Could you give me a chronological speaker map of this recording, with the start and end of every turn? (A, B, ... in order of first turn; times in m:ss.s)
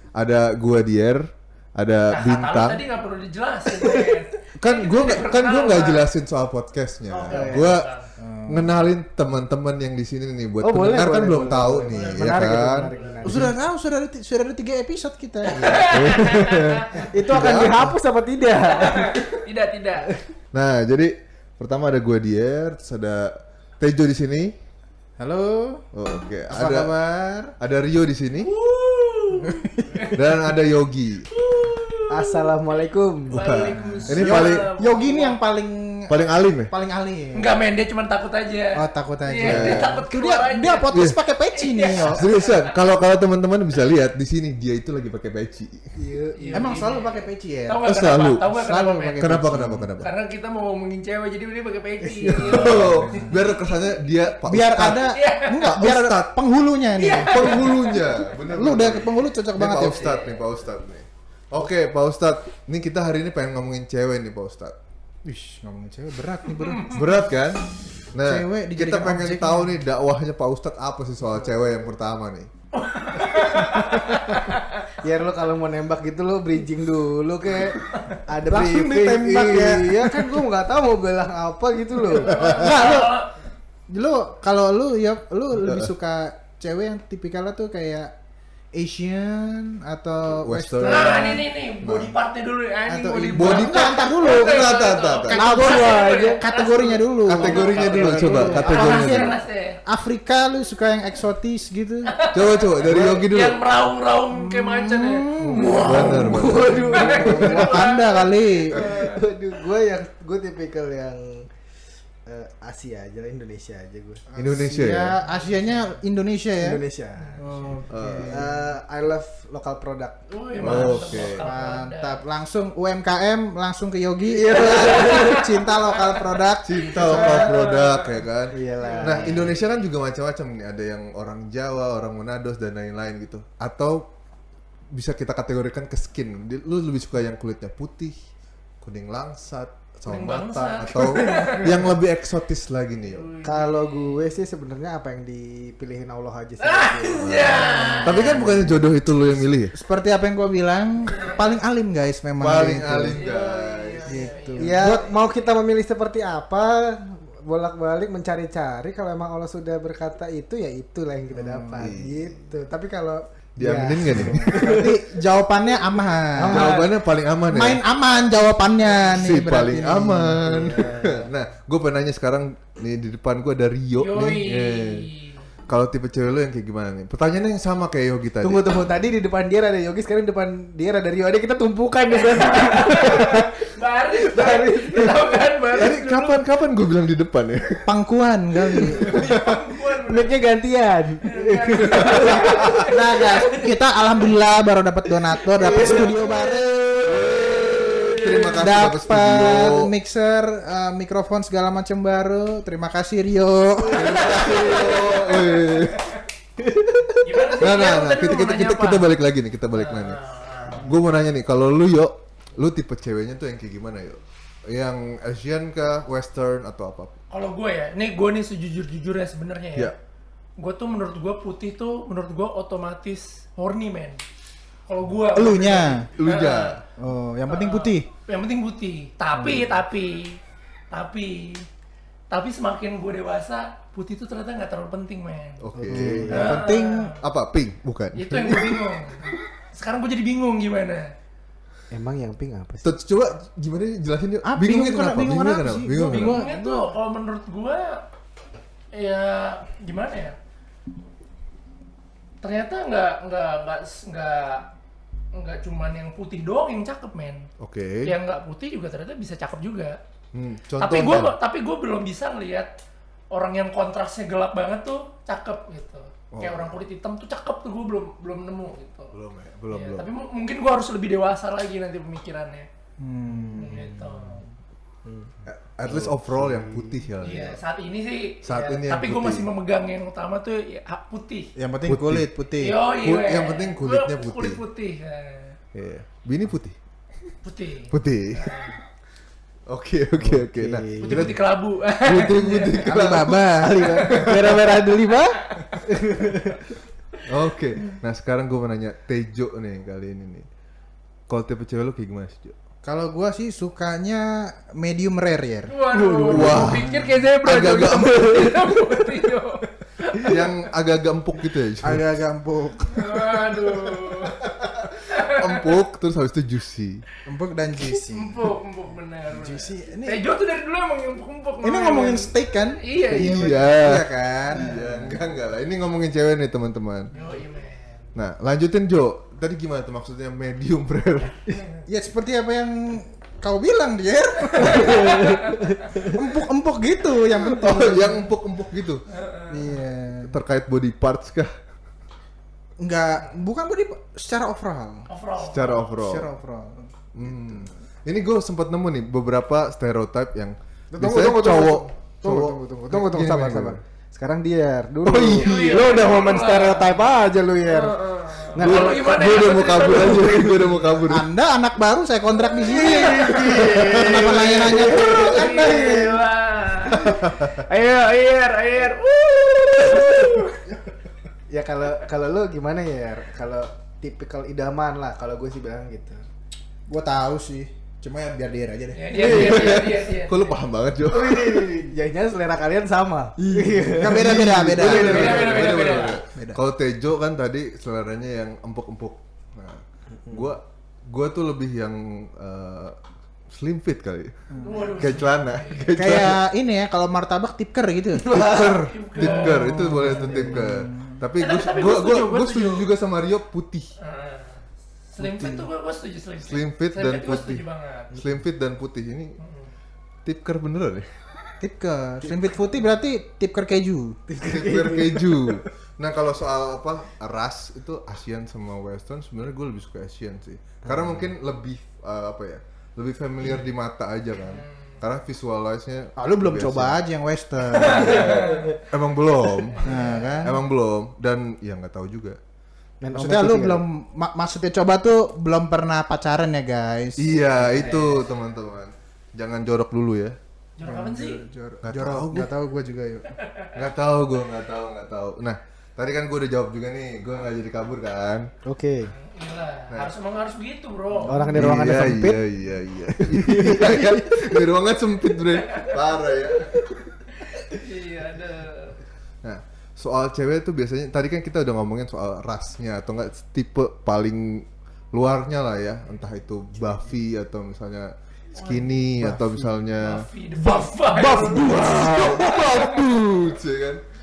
0:00.2-0:02.8 A
0:02.1-0:06.1 B
0:03.8-0:04.1 C
0:04.6-0:07.9 A
0:07.1-0:08.1 B
0:07.3-0:07.8 C
0:08.2-0:08.7 D
0:08.5-0:13.5 A
0:10.6-0:13.5 C
0:11.9-0:13.2 B
0:13.2-0:16.1 D
0:15.4-0:17.1 B
0:15.9-0:18.0 A
0:17.0-0:19.3 C
0:18.5-0:20.1 B
0:20.5-0:24.6 A
0:25.2-0:25.8 D
0:25.9-0:26.9 A
0:26.5-0:27.5 D
0:27.6-0:28.5 A
0:28.4-0:30.2 B
0:29.4-0:29.9 D
0:30.1-0:31.3 A
0:31.3-0:35.4 B
0:32.1-0:33.7 C
0:33.3-0:34.7 A
0:33.8-0:37.5 D
0:36.1-0:36.7 A
0:37.4-0:40.9 B
0:38.8-0:42.3 D
0:39.4-0:40.0 A
0:41.5-0:42.7 B
0:42.1-0:45.8 A
0:46.0-0:46.8 C
0:46.4-0:49.4 B
0:46.5-0:47.8 D
0:47.8-0:48.5 A
0:48.4-0:49.9 D
0:49.2-0:50.1 A
0:50.0-0:54.0 B
0:52.0-0:53.2 C
0:52.2-0:56.3 A
0:52.4-0:53.4 D
0:54.5-0:57.7 D
0:55.1-0:55.6 B
0:57.0-0:58.3 B
0:57.2-1:04.8 A
0:58.5-1:00.2 D
0:59.9-1:00.4 B
1:05.2-1:07.0 D
1:06.6-1:07.1 B
1:06.9-1:12.5 A
1:08.2-1:09.8 D
1:12.7-1:14.8 B
1:15.0-1:23.1 C
1:18.5-1:20.4 D
1:22.1-1:23.3 B
1:22.5-1:23.1 D
1:23.9-1:28.1 D
1:25.5-1:25.9 A
1:28.7-1:31.4 D
1:30.4-1:32.1 A
1:30.8-1:39.8 B
1:32.9-1:34.6 D
1:33.3-1:35.4 A
1:35.3-1:39.3 D
1:35.4-1:36.4 C
1:37.3-1:39.4 A
1:37.6-1:39.2 C
1:39.9-1:42.1 D
1:42.1-1:49.1 B
1:42.3-1:43.6 A
1:42.9-1:43.2 D
1:44.3-1:48.9 D
1:45.4-1:47.8 A
1:45.9-1:47.9 C
1:48.7-1:51.5 C
1:52.3-1:54.9 C
1:54.3-1:56.8 D
1:54.4-1:55.2 A
1:56.6-2:01.0 C
1:57.4-1:58.6 D
1:57.9-1:58.5 A
2:00.3-2:02.2 B
2:00.6-2:01.4 A
2:00.7-2:07.5 D
2:04.3-2:05.4 C
2:04.5-2:06.2 B
2:06.6-2:14.1 A
2:07.0-2:08.2 B
2:07.0-2:07.5 C
2:08.5-2:09.5 C
2:08.8-2:09.6 B
2:14.9-2:18.2 A
2:18.8-2:23.3 A
2:20.1-2:21.8 B
2:23.1-2:24.2 B
2:23.4-2:28.8 C
2:26.6-2:28.4 B
2:27.2-2:29.7 A
2:28.2-2:28.7 D
2:29.7-2:33.2 D
2:32.4-2:34.2 A
2:33.1-2:34.9 B
2:34.1-2:35.1 D
2:34.6-2:44.9 C
2:41.3-2:41.9 D
2:41.8-2:42.4 A
2:43.6-2:44.8 A
2:44.2-2:46.8 D
2:46.4-2:46.9 C
2:46.5-2:47.8 A
2:47.5-2:50.3 D
2:49.1-2:55.1 A
2:50.2-2:51.3 C
2:54.0-2:55.4 B
2:55.7-2:58.8 A
2:58.4-3:05.5 C
3:02.1-3:06.4 B
3:05.7-3:07.9 A
3:07.9-3:09.2 D
3:08.8-3:09.6 A
3:09.0-3:10.3 B
3:10.0-3:12.9 C
3:11.2-3:13.8 B
3:12.8-3:16.7 D
3:15.6-3:16.8 C
3:15.7-3:18.7 B
3:17.0-3:19.9 A
3:18.6-3:24.7 D
3:23.9-3:26.1 A
3:23.9-3:26.2 B
3:26.6-3:27.6 C
3:27.2-3:29.1 B
3:27.6-3:37.2 A
3:29.7-3:30.9 B
3:37.3-3:39.9 B
3:40.6-3:44.2 B
3:44.9-3:46.8 B
3:45.3-3:46.1 D
3:46.1-3:46.8 A
3:47.0-3:48.1 D
3:47.5-3:50.4 B
3:50.9-3:51.7 B
3:52.3-3:55.6 B
3:55.6-3:59.0 A
3:55.8-3:56.7 C
3:55.9-3:56.2 D
3:56.3-3:57.2 B
3:58.2-4:01.1 B
4:01.9-4:02.9 C
4:02.8-4:06.5 A
4:04.4-4:06.9 D
4:05.9-4:06.2 C
4:06.1-4:08.0 B
4:08.9-4:10.4 B
4:12.4-4:14.7 B
4:15.3-4:17.5 B
4:17.6-4:18.1 A
4:18.0-4:20.0 B
4:20.3-4:21.4 A
4:20.8-4:22.8 B
4:23.3-4:29.1 B
4:26.3-4:26.8 A
4:29.1-4:30.1 A
4:29.7-4:32.7 B
4:33.0-4:34.0 D
4:33.4-4:33.7 C
4:33.6-4:34.5 B
4:35.0-4:37.0 C
4:35.5-4:37.6 A
4:37.2-4:41.5 B
4:38.4-4:39.5 A
4:41.6-4:42.8 D
4:41.8-4:42.3 A
4:42.6-4:45.6 B
4:43.0-4:44.6 A
4:45.7-4:46.8 A
4:47.4-4:48.8 B
4:47.9-4:48.7 A
4:49.7-4:51.4 A
4:50.2-4:51.4 C
4:51.0-4:52.8 B
4:52.0-4:54.6 A
4:52.6-4:54.3 D
4:53.0-4:56.6 C
4:57.3-5:00.5 A
5:01.3-5:02.6 A
5:02.8-5:07.0 D
5:05.7-5:10.5 B
5:06.2-5:08.7 A
5:10.2-5:12.0 A
5:11.8-5:13.5 D
5:12.9-5:14.4 B
5:14.5-5:17.0 A
5:15.1-5:15.7 B
5:17.2-5:18.6 D
5:18.1-5:23.7 B
5:19.3-5:20.2 D
5:21.6-5:25.2 D
5:23.1-5:27.1 A
5:27.1-5:27.9 B
5:28.2-5:31.4 A
5:31.8-5:35.4 D
5:34.5-5:36.0 B
5:34.6-5:36.2 C
5:35.9-5:38.3 D
5:37.5-5:39.0 A
5:39.1-5:39.5 B
5:39.5-5:40.3 D
5:40.2-5:41.5 A
5:42.8-5:45.1 D
5:45.1-5:45.9 B
5:45.4-5:46.3 A
5:46.0-5:47.7 D
5:47.2-5:53.8 A
5:50.9-6:00.7 C
5:51.2-5:51.7 D
5:55.0-5:55.8 A
5:55.4-5:57.0 B
5:57.7-6:00.6 B
5:58.6-6:01.3 A
6:01.0-6:06.0 D
6:02.6-6:06.2 C
6:02.6-6:10.6 B
6:03.5-6:04.5 A
6:06.9-6:07.6 A
6:11.5-6:16.3 C
6:16.9-6:19.8 D
6:18.9-6:20.5 B
6:19.1-6:21.7 A
6:19.2-6:19.7 C
6:21.0-6:25.5 C
6:23.4-6:26.6 D
6:24.1-6:33.0 A
6:24.8-6:26.2 B
6:30.1-6:30.6 C
6:33.5-6:34.4 A
6:34.5-6:34.8 D
6:34.6-6:36.0 B
6:35.0-6:36.4 A
6:36.0-6:41.2 D
6:38.2-6:43.9 A
6:38.3-6:40.2 B
6:40.0-6:40.7 C
6:41.4-6:42.9 B
6:44.0-6:48.2 B
6:46.4-6:49.4 A
6:49.4-6:49.7 B
6:50.2-6:51.1 A
6:51.6-6:54.2 D
6:54.3-6:55.6 C
6:54.4-7:07.0 A
7:00.8-7:01.2 C
7:04.5-7:04.9 B
7:06.2-7:08.5 D
7:07.8-7:08.8 B
7:07.8-7:12.4 A
7:08.3-7:08.7 C
7:09.8-7:10.2 B
7:09.8-7:10.6 D
7:13.0-7:13.8 C
7:13.1-7:18.2 D
7:17.2-7:20.4 A
7:17.7-7:18.3 B
7:20.8-7:21.4 B
7:20.8-7:23.3 D
7:21.8-7:22.5 A
7:23.4-7:23.8 B
7:23.8-7:28.5 A
7:28.6-7:29.1 C
7:29.1-7:31.5 B
7:31.2-7:32.5 C
7:31.5-7:37.0 A
7:33.2-7:34.6 C
7:35.6-7:35.9 B
7:37.4-7:39.0 B
7:39.4-7:54.0 A
7:48.5-7:49.1 B
7:49.3-7:49.7 C
7:50.0-7:52.9 B
7:51.4-7:52.4 C